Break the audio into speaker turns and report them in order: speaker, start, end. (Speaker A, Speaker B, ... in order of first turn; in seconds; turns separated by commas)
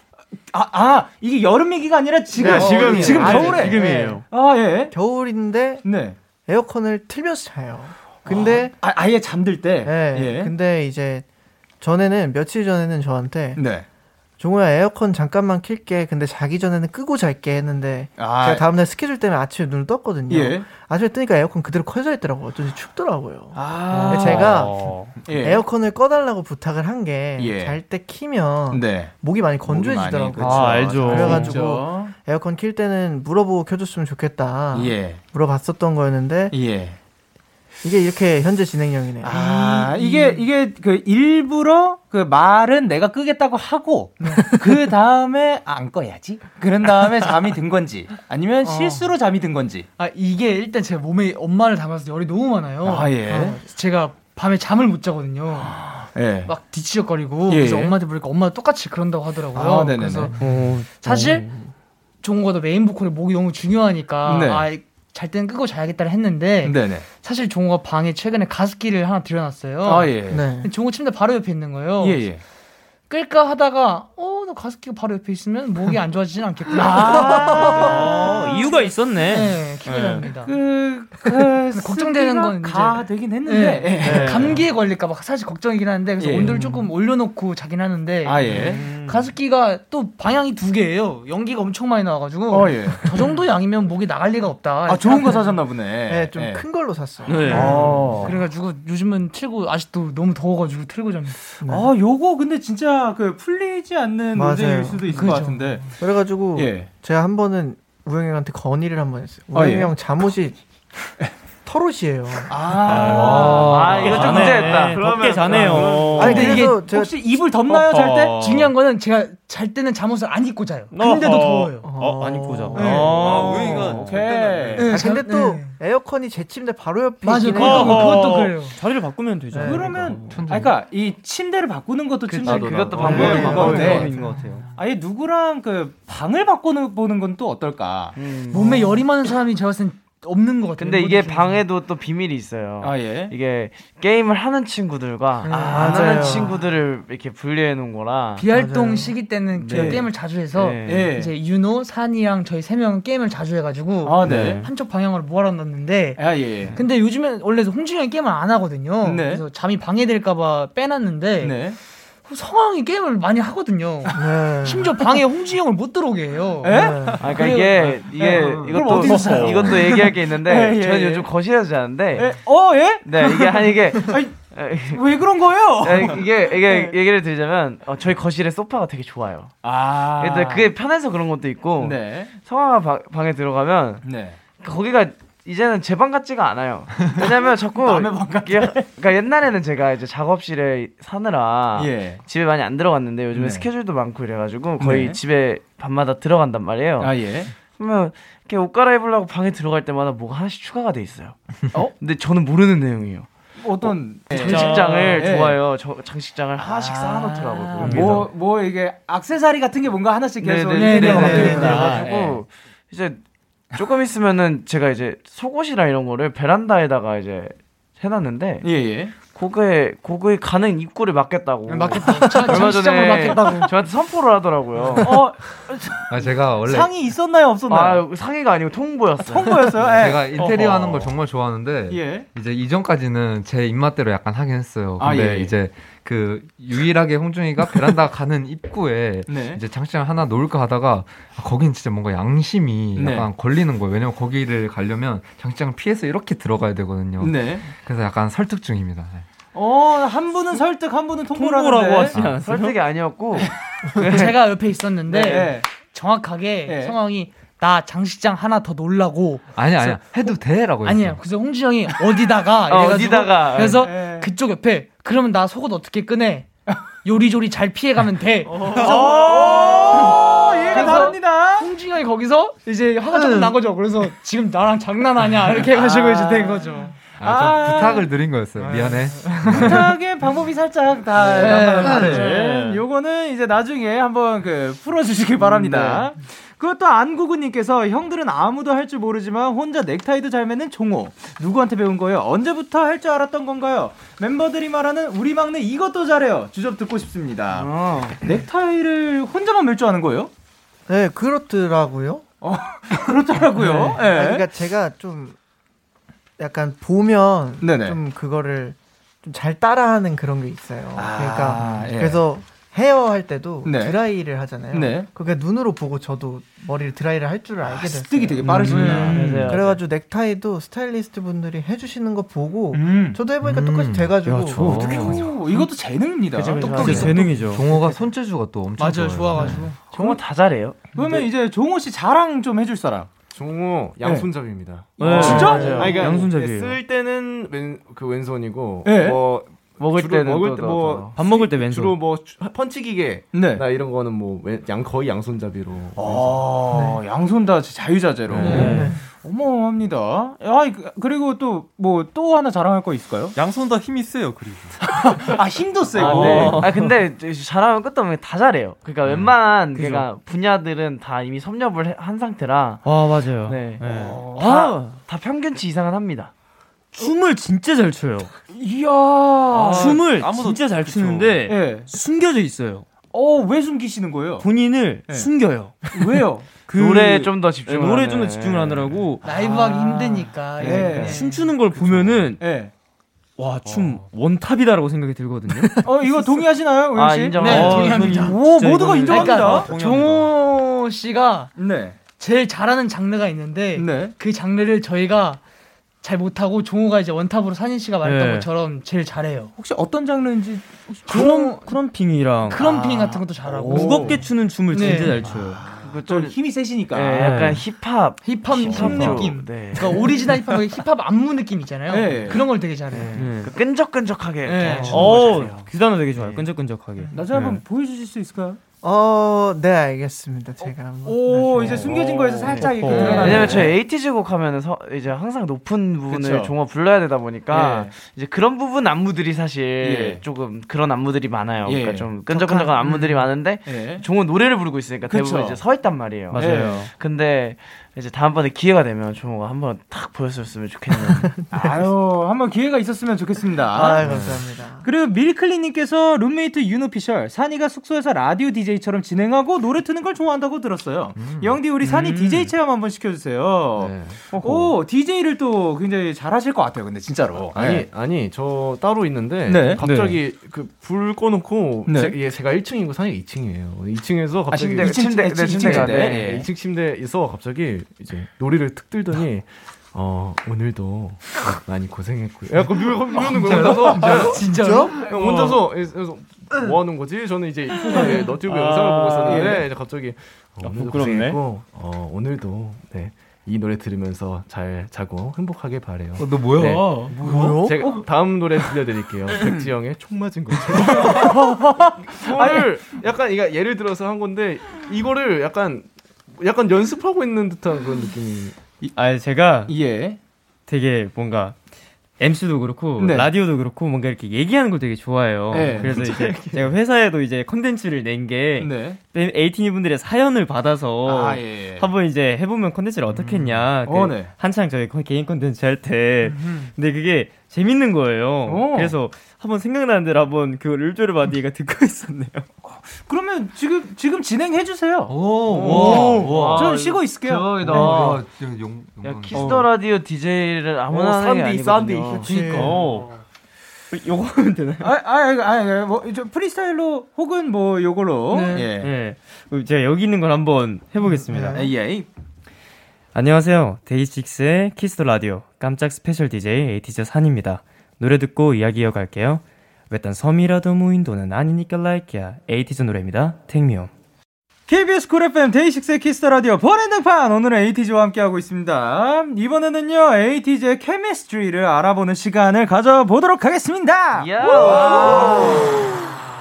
Speaker A: 0.5-4.9, Speaker B: 2.4-4.2, Speaker C: 2.4-4.2, Speaker D: 3.0-3.4, Speaker B: 4.9-5.8, Speaker A: 5.8-6.2, Speaker B: 6.5-8.8, Speaker A: 8.2-10.5, Speaker B: 9.8-11.2, Speaker B: 11.8-13.6, Speaker A: 13.6-13.9, Speaker B: 14.4-36.5, Speaker A: 18.2-18.6, Speaker A: 20.3-20.7, Speaker A: 23.5-24.7, Speaker C: 23.9-25.2, Speaker A: 25.2-25.6, Speaker A: 27.4-27.8, Speaker A: 28.7-29.1, Speaker A: 29.6-32.1, Speaker C: 30.4-31.6, Speaker A: 34.7-35.2, Speaker A: 36.5-37.0, Speaker B: 37.8-40.1, Speaker A: 39.2-49.9, Speaker E: 40.0-40.4, Speaker E: 44.2-44.6, Speaker E: 48.6-49.1, Speaker E: 50.0-55.8, Speaker A: 52.8-53.6, Speaker A: 55.6-56.5, Speaker E: 56.5-61.5, Speaker A: 57.5-58.0, Speaker A: 59.5-60.3, Speaker C: 60.4-61.7, Speaker E: 62.2-72.2, Speaker A: 64.2-64.7, Speaker A: 66.6-67.0, Speaker A: 69.8-70.4, Speaker B: 70.3-70.7, Speaker A: 72.0-72.4, Speaker E: 73.1-80.5, Speaker A: 76.7-78.3, Speaker C: 77.3-80.3, Speaker A: 80.3-84.7, Speaker E: 81.7-95.6, Speaker A: 86.2-86.5, Speaker B: 86.4-86.8, Speaker A: 88.2-88.8, Speaker C: 88.5-89.3, Speaker A: 92.5-93.1, Speaker A: 94.9-96.6, Speaker B: 96.1-97.6, Speaker C: 97.3-98.2, Speaker E: 97.3-101.4, Speaker A: 97.5-98.3, Speaker B: 101.6-101.9, Speaker A: 101.6-105.9, Speaker B: 104.3-105.2, Speaker E: 105.1-105.8, Speaker B: 106.0-110.6, Speaker A: 106.5-106.9, Speaker A: 109.5-109.9, Speaker B: 111.6-113.1, Speaker A: 112.5-114.7, Speaker C: 112.8-116.7, Speaker F: 113.0-116.4, Speaker D: 113.5-115.0, Speaker A: 115.5-118.4, Speaker B: 116.2-117.2, Speaker E: 116.2-116.8, Speaker C: 117.7-118.7, Speaker E: 118.3-121.9, Speaker C: 120.9-124.2, Speaker B: 121.8-123.3, Speaker E: 122.7-123.9, Speaker G: 123.1-125.0, Speaker A: 124.0-124.9, Speaker E: 124.8-125.8, Speaker B: 124.8-128.3, Speaker E: 127.2-128.8, Speaker C: 127.5-130.4, Speaker B: 129.5-129.9, Speaker A: 129.6-134.1, Speaker H: 130.3-130.8, Speaker C: 132.3-134.7, Speaker F: 132.4-134.1, Speaker D: 132.4-134.0, Speaker B: 133.1-134.5, Speaker A: 134.8-138.1, Speaker D: 138.2-139.0, Speaker E: 138.5-141.6, Speaker D: 140.8-148.4, Speaker A: 142.8-143.3, Speaker E: 145.5-146.0, Speaker B: 145.5-146.6, Speaker A: 145.5-146.4, Speaker E: 148.4-161.6, Speaker B: 148.5-149.2, Speaker D: 149.5-151.1, Speaker A: 149.7-150.1, Speaker A: 150.9-151.3, Speaker A: 154.0-154.6, Speaker C: 154.3-154.7, Speaker A: 156.2-156.8, Speaker A: 159.0-159.4, Speaker A: 161.4-161.8, Speaker E: 162.2-168.0, Speaker B: 164.1-165.1, Speaker A: 166.6-171.3, Speaker B: 166.7-167.2, Speaker D: 167.2-172.4, Speaker E: 168.8-169.6, Speaker A: 172.1-176.9, Speaker D: 173.0-175.0, Speaker D: 175.8-179.5, Speaker A: 179.6-180.7, Speaker D: 180.2-184.1, Speaker A: 181.8-182.3, Speaker A: 184.0-184.4, Speaker D: 184.6-203.3, Speaker A: 187.2-188.9, Speaker A: 191.8-192.2, Speaker A: 193.3-193.7, Speaker A: 194.8-195.2, Speaker A: 197.0-197.5, Speaker A: 203.6-205.6, Speaker D: 203.8-208.3, Speaker C: 204.3-205.2, Speaker E: 204.5-204.9, Speaker A: 206.6-212.4, Speaker C: 207.9-208.2, Speaker D: 210.4-213.2, Speaker E: 210.7-212.1, Speaker B: 211.2-211.8, Speaker D: 213.7-218.7, Speaker A: 218.6-219.1, Speaker D: 219.3-225.3, Speaker E: 221.7-223.7, Speaker A: 225.0-228.0, Speaker H: 226.1-226.9, Speaker D: 227.7-229.8, Speaker A: 229.2-231.1, Speaker H: 229.9-249.3, Speaker A: 231.9-232.3, Speaker A: 235.0-235.5, Speaker A: 239.3-239.6, Speaker A: 242.9-243.3, Speaker A: 247.2-247.6, Speaker A: 249.5-252.1, Speaker C: 251.3-252.8, Speaker H: 252.1-252.4, Speaker D: 252.4-254.3, Speaker E: 254.0-266.5, Speaker A: 255.1-255.7, Speaker A: 256.7-256.9, Speaker H: 259.6-261.2, Speaker D: 262.7-263.9, Speaker A: 263.8-264.3, Speaker E: 267.0-277.0, Speaker A: 268.7-271.7, Speaker D: 275.7-276.6, Speaker A: 277.2-278.1, Speaker H: 277.2-279.9, Speaker E: 278.6-279.9, Speaker A: 279.5-300.3, Speaker E: 281.3-282.6, Speaker C: 281.9-282.6, Speaker D: 297.5-298.2, Speaker B: 300.9-302.2, Speaker A: 302.4-304.4, Speaker B: 303.5-305.4, Speaker B: 306.4-325.2, Speaker A: 307.6-308.0, Speaker A: 310.9-312.2, Speaker A: 313.6-314.0, Speaker A: 314.7-315.1, Speaker A: 317.6-319.5, Speaker C: 318.4-319.6, Speaker E: 318.6-319.5, Speaker D: 319.0-319.8, Speaker A: 322.7-323.2, Speaker H: 323.4-325.2, Speaker C: 324.2-325.2, Speaker A: 324.6-327.2, Speaker D: 326.3-327.3, Speaker E: 326.6-327.2, Speaker C: 326.7-327.7, Speaker H: 327.3-329.7, Speaker E: 328.8-329.8, Speaker D: 329.4-331.0, Speaker A: 330.9-333.1, Speaker F: 333.3-346.6, Speaker A: 334.0-334.3, Speaker A: 335.0-335.9, Speaker C: 335.0-336.8, Speaker D: 335.1-336.0, Speaker A: 338.8-339.2, Speaker D: 339.8-341.1, Speaker C: 341.2-342.0, Speaker A: 343.3-343.6, Speaker A: 345.9-353.4, Speaker B: 346.7-347.0, Speaker F: 348.3-348.6, Speaker E: 348.4-348.9, Speaker C: 348.4-348.9, Speaker B: 348.5-349.0, Speaker G: 353.4-354.9, Speaker A: 354.8-356.7, Speaker C: 355.9-356.9, Speaker D: 355.9-362.9, Speaker C: 359.8-360.0, Speaker C: 362.8-365.0, Speaker D: 363.4-366.3, Speaker A: 363.8-364.8, Speaker C: 366.9-368.3, Speaker A: 368.5-370.0, Speaker G: 369.5-371.4, Speaker C: 369.7-372.9, Speaker A: 371.5-371.9, Speaker A: 373.1-374.5, Speaker C: 374.4-375.8, Speaker A: 375.9-376.5, Speaker C: 376.7-382.4, Speaker D: 376.7-379.0, Speaker E: 379.2-381.6, Speaker A: 380.6-381.2, Speaker A: 382.4-382.7, Speaker C: 383.4-385.8, Speaker A: 385.8-389.7, Speaker D: 386.9-388.3, Speaker E: 387.4-388.5, Speaker C: 387.4-389.5, Speaker E: 389.1-391.5, Speaker G: 389.2-390.4, Speaker A: 391.6-392.0, Speaker E: 392.2-395.4, Speaker A: 393.8-394.1, Speaker E: 396.0-399.5, Speaker C: 398.0-398.5, Speaker A: 399.6-401.8, Speaker E: 401.1-401.8, Speaker C: 401.1-402.9, Speaker E: 402.4-405.4, Speaker A: 403.4-404.2, Speaker C: 403.7-405.7, Speaker A: 405.2-407.4, Speaker D: 405.6-410.4, Speaker C: 407.1-407.6, Speaker E: 408.2-413.3, Speaker A: 408.6-409.8, Speaker A: 411.9-412.4, Speaker D: 412.9-415.7, Speaker C: 413.1-413.5, Speaker E: 414.4-415.4, Speaker C: 414.8-417.6, Speaker A: 417.1-418.6, Speaker B: 418.8-422.1, Speaker A: 420.6-423.8, Speaker C: 421.9-423.5, Speaker D: 422.5-441.3, Speaker E: 422.6-423.6, Speaker A: 426.1-426.5, Speaker A: 427.5-427.9, Speaker A: 429.8-430.2, Speaker A: 431.6-432.1, Speaker B: 432.3-432.7, Speaker A: 432.8-434.1, Speaker A: 435.1-435.6, Speaker C: 436.3-436.9, Speaker A: 436.3-436.9, Speaker B: 440.9-441.9, Speaker A: 441.5-444.0, Speaker B: 443.7-444.9, Speaker F: 444.0-444.4, Speaker A: 444.8-457.9, Speaker H: 451.2-451.6, Speaker C: 451.8-452.5, Speaker F: 453.8-454.7, Speaker F: 457.5-498.6, Speaker A: 459.5-459.8, Speaker C: 459.8-460.2, Speaker A: 461.9-462.2, Speaker A: 464.5-466.5, Speaker D: 464.8-466.3, Speaker E: 473.0-475.1, Speaker B: 474.1-475.0, Speaker C: 475.1-475.6, Speaker C: 477.8-479.7, Speaker A: 479.3-479.6, Speaker C: 480.6-481.4, Speaker H: 486.2-487.0, Speaker A: 487.1-488.0, Speaker B: 487.2-488.0, Speaker A: 489.4-489.6, Speaker A: 490.8-492.7, Speaker C: 498.9-499.7, Speaker A: 499.7-500.2, Speaker C: 500.7-501.6, Speaker C: 502.2-522.5, Speaker A: 503.0-503.3, Speaker A: 505.5-505.9, Speaker F: 505.5-506.7, Speaker A: 508.6-509.0, Speaker A: 511.1-511.9, Speaker H: 513.1-513.7, Speaker A: 513.9-514.3, Speaker A: 518.5-519.0, Speaker A: 522.7-525.2, Speaker H: 525.1-526.3, Speaker F: 525.5-526.6, Speaker C: 525.5-526.8, Speaker D: 525.7-528.2, Speaker E: 525.7-526.1, Speaker A: 526.0-527.5, Speaker F: 527.5-528.2, Speaker H: 527.6-529.7, Speaker D: 529.0-532.6, Speaker C: 529.4-529.7, Speaker F: 530.9-532.4, Speaker B: 532.2-532.8, Speaker E: 532.3-532.8, Speaker C: 532.5-533.1, Speaker C: 533.9-535.0, Speaker A: 534.8-538.9, Speaker E: 538.3-538.7, Speaker C: 538.8-541.7, Speaker B: 541.0-541.6, Speaker A: 541.5-542.1, Speaker C: 543.1-553.9, Speaker A: 554.7-566.0, Speaker D: 564.1-565.9, Speaker F: 564.6-565.8